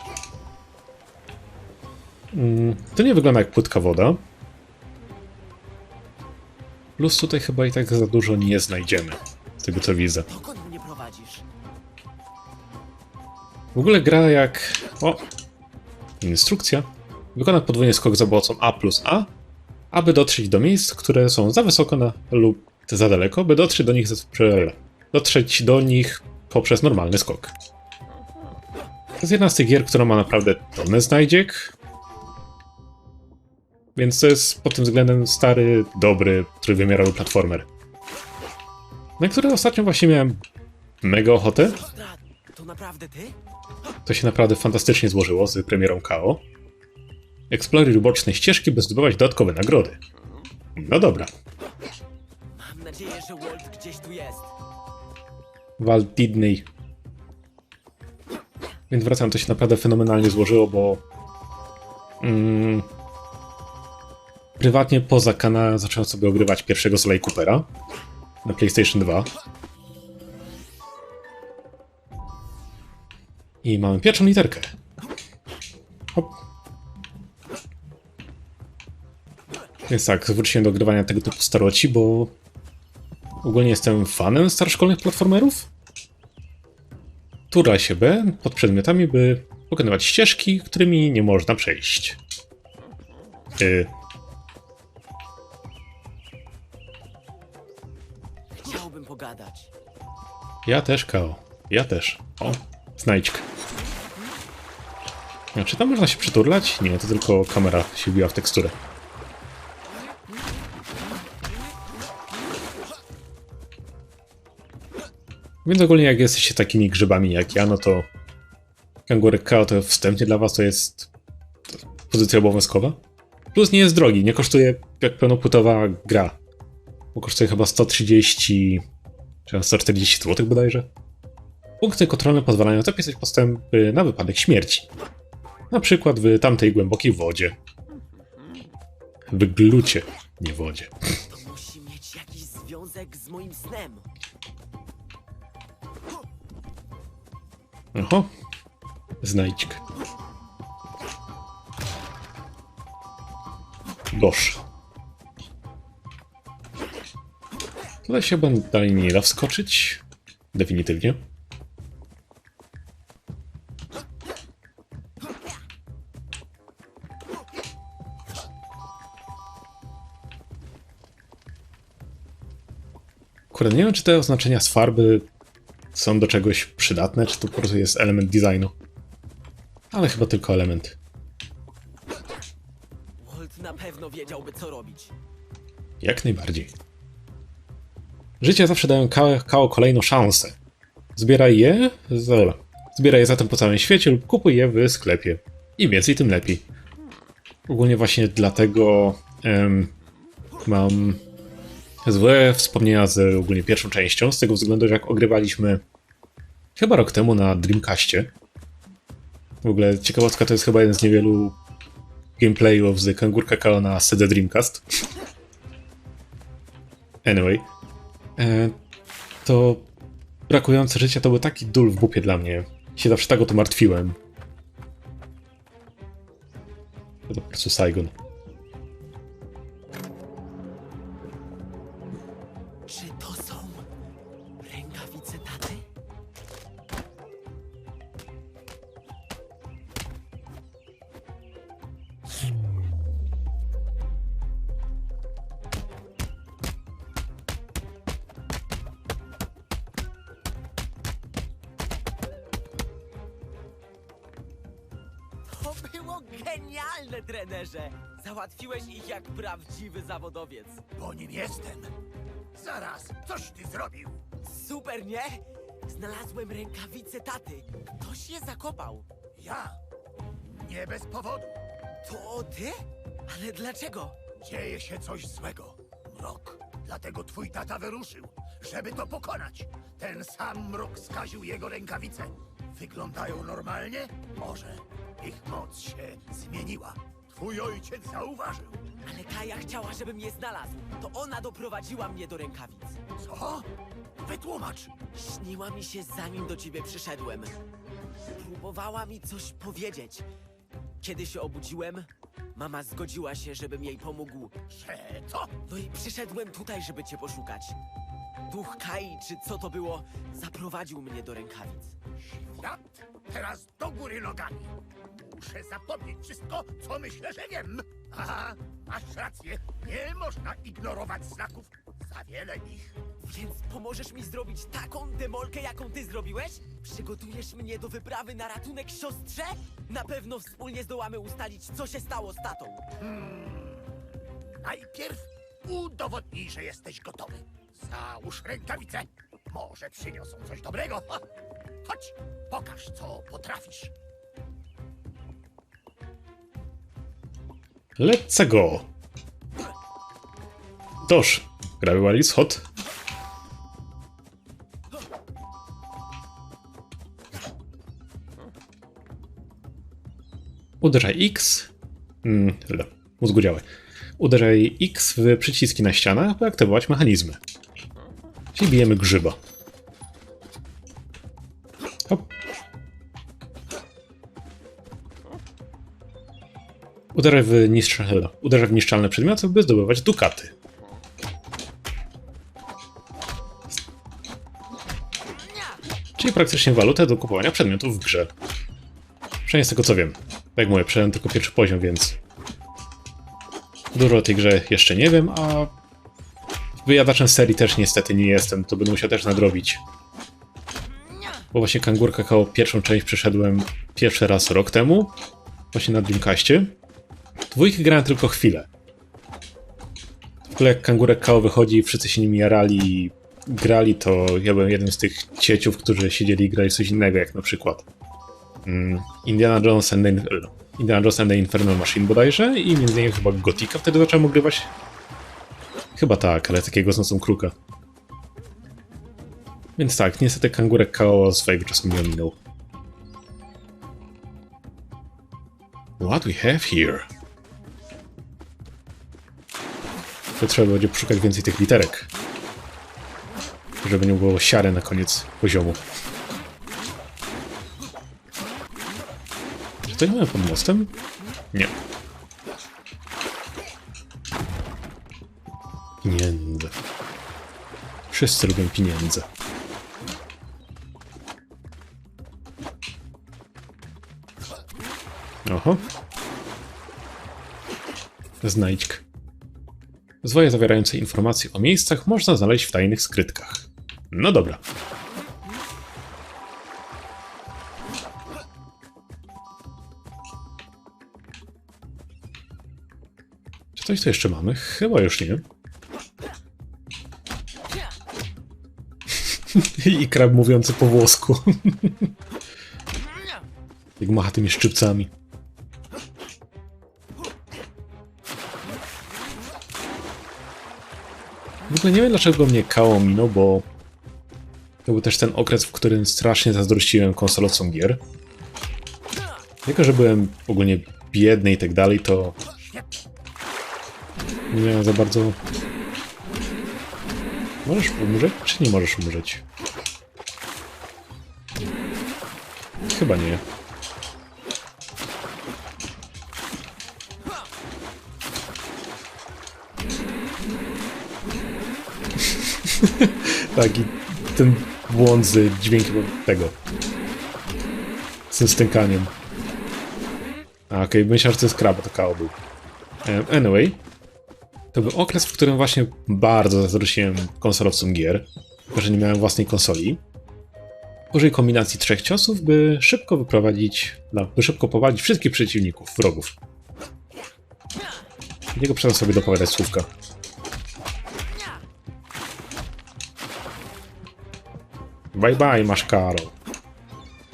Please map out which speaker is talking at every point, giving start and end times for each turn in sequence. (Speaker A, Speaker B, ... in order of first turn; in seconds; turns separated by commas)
Speaker A: 2.3-4.2, Speaker A: 7.0-10.3, Speaker B: 10.3-11.4, Speaker A: 13.7-15.2, Speaker A: 16.2-19.3, Speaker A: 19.9-27.5, Speaker A: 29.2-31.7, Speaker A: 33.9-37.7, Speaker A: 39.2-40.4, Speaker A: 41.0-41.8, Speaker B: 41.8-43.4, Speaker A: 44.0-46.4, Speaker A: 47.5-50.0, Speaker A: 50.8-51.3, Speaker B: 52.5-54.5, Speaker A: 55.8-56.7, Speaker A: 58.9-61.0, Speaker A: 62.2-62.9, Speaker A: 64.6-67.7, Speaker A: 68.4-69.3, Speaker A: 73.6-74.7, Speaker A: 79.9-82.3, Speaker A: 83.4-85.7, Speaker A: 87.5-92.2, Speaker A: 93.6-93.9, Speaker B: 98.5-99.7, Speaker A: 100.6-103.4, Speaker A: 105.5-108.7, Speaker A: 115.6-118.1, Speaker A: 119.1-121.1, Speaker A: 121.7-123.0, Speaker A: 123.5-126.4, Speaker A: 127.1-128.8, Speaker A: 129.4-130.9, Speaker A: 131.8-134.9, Speaker A: 135.7-137.6, Speaker A: 139.3-140.9, Speaker B: 141.3-144.1, Speaker A: 147.9-148.3, Speaker A: 149.2-149.8, Speaker A: 154.1-154.6, Speaker A: 158.1-160.0, Speaker A: 160.5-161.2, Speaker A: 173.5-175.3, Speaker A: 175.9-178.7, Speaker A: 179.9-181.0, Speaker B: 183.2-185.1, Speaker A: 186.0-186.7, Speaker A: 188.4-190.6, Speaker A: 191.2-196.7, Speaker A: 197.7-199.9, Speaker A: 200.6-201.2, Speaker A: 202.0-205.8, Speaker A: 206.8-208.3, Speaker A: 209.6-211.5, Speaker A: 212.4-214.8, Speaker A: 217.2-217.7, Speaker A: 218.4-218.8, Speaker A: 219.4-219.9, Speaker A: 220.5-224.2, Speaker A: 227.3-228.1, Speaker B: 232.9-233.9, Speaker B: 234.6-235.8, Speaker B: 255.5-260.8, Speaker C: 260.9-262.0, Speaker C: 262.5-264.2, Speaker B: 264.4-269.1, Speaker C: 269.4-269.8, Speaker C: 270.4-271.6, Speaker B: 272.0-272.8, Speaker B: 273.3-274.1, Speaker C: 274.4-288.8, Speaker B: 289.0-293.0, Speaker C: 293.2-293.7, Speaker C: 294.2-294.9, Speaker B: 295.1-297.6, Speaker B: 298.4-300.3, Speaker B: 301.0-304.6, Speaker C: 304.7-305.5, Speaker B: 305.7-307.8, Speaker B: 308.5-311.9, Speaker C: 312.2-323.0, Speaker B: 323.2-332.8, Speaker C: 333.0-334.0, Speaker C: 334.6-341.2, Speaker C: 341.8-343.9, Speaker A: 348.0-348.9, Speaker A: 351.1-352.7, Speaker A: 360.8-361.7, Speaker A: 362.2-363.6, Speaker A: 364.2-367.4, Speaker A: 368.5-369.4, Speaker A: 377.1-380.5, Speaker A: 386.2-388.3, Speaker A: 389.4-392.2, Speaker A: 393.9-395.7, Speaker A: 396.8-399.8, Speaker A: 401.5-405.1, Speaker A: 405.7-406.7, Speaker A: 407.5-408.7, Speaker A: 410.5-417.9, Speaker A: 418.6-424.7, Speaker A: 425.9-427.5, Speaker A: 429.8-432.4, Speaker A: 436.0-437.1, Speaker A: 440.4-442.1, Speaker A: 443.8-445.8, Speaker A: 449.9-450.9, Speaker A: 456.0-456.7, Speaker A: 458.1-459.3, Speaker A: 465.4-465.8, Speaker A: 468.4-469.0, Speaker A: 470.2-474.6, Speaker A: 483.7-485.4, Speaker A: 489.3-492.1, Speaker A: 494.0-495.1, Speaker A: 501.7-503.6, Speaker A: 504.8-508.0, Speaker A: 509.6-512.4, Speaker A: 514.5-515.4, Speaker A: 517.6-519.4, Speaker A: 522.8-523.4, Speaker A: 532.3-536.5, Speaker A: 538.3-539.1, Speaker A: 540.7-542.3, Speaker A: 543.0-543.8, Speaker A: 544.7-550.0, Speaker A: 551.1-556.3, Speaker A: 558.5-559.9, Speaker A: 565.1-566.3